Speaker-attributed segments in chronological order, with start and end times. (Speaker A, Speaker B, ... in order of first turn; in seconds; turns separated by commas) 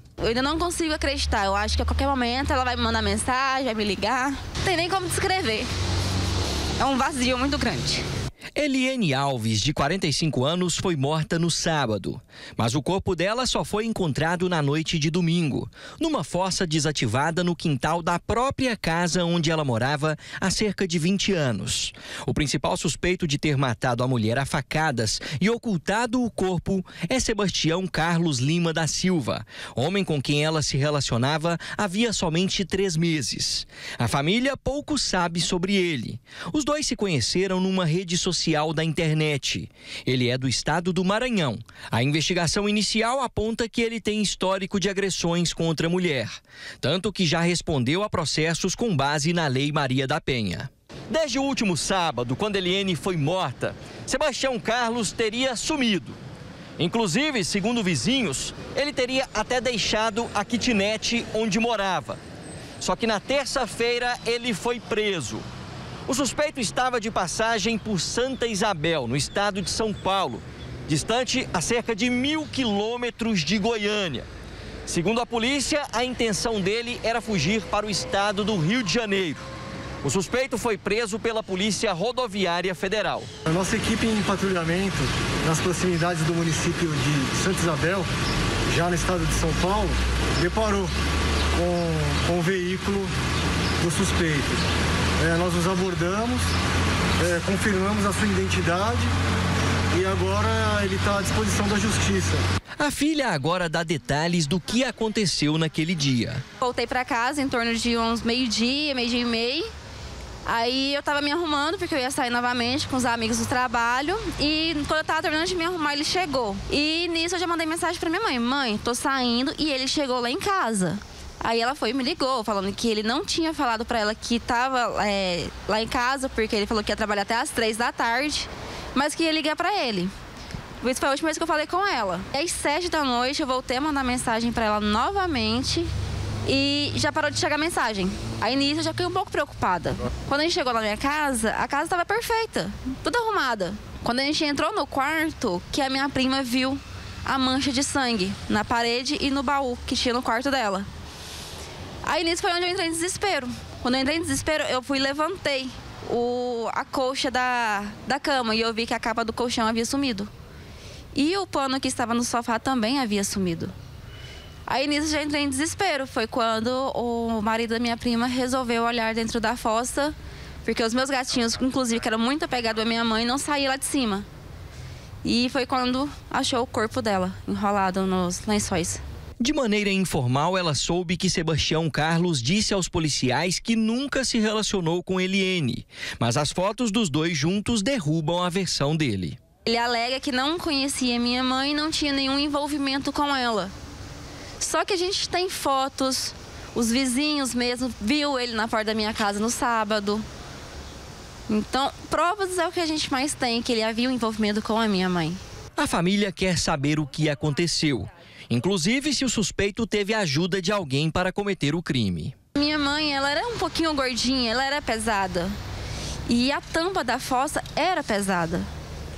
Speaker A: 0.2-5.7, Speaker A: 6.8-8.0, Speaker B: 8.6-56.2, Speaker B: 56.8-62.2, Speaker B: 62.8-65.4, Speaker B: 66.1-74.3, Speaker B: 74.8-79.4, Speaker B: 80.0-83.3, Speaker C: 83.5-88.1, Speaker C: 88.7-90.9, Speaker C: 91.5-93.1, Speaker C: 93.8-94.6, Speaker C: 95.2-96.5, Speaker C: 97.2-99.1, Speaker C: 99.9-102.4, Speaker B: 102.8-106.4, Speaker A: 106.6-109.7, Speaker A: 110.5-130.1, Speaker A: 130.8-135.9, Speaker A: 136.4-150.9, Speaker A: 152.0-160.3, Speaker A: 161.1-163.7, Speaker A: 164.7-174.2, Speaker A: 175.2-179.0, Speaker B: 179.4-189.4, Speaker A: 189.7-193.7, Speaker A: 194.6-200.2, Speaker A: 201.5-205.4, Speaker B: 205.8-212.3, Speaker A: 212.6-215.6, Speaker A: 216.3-218.7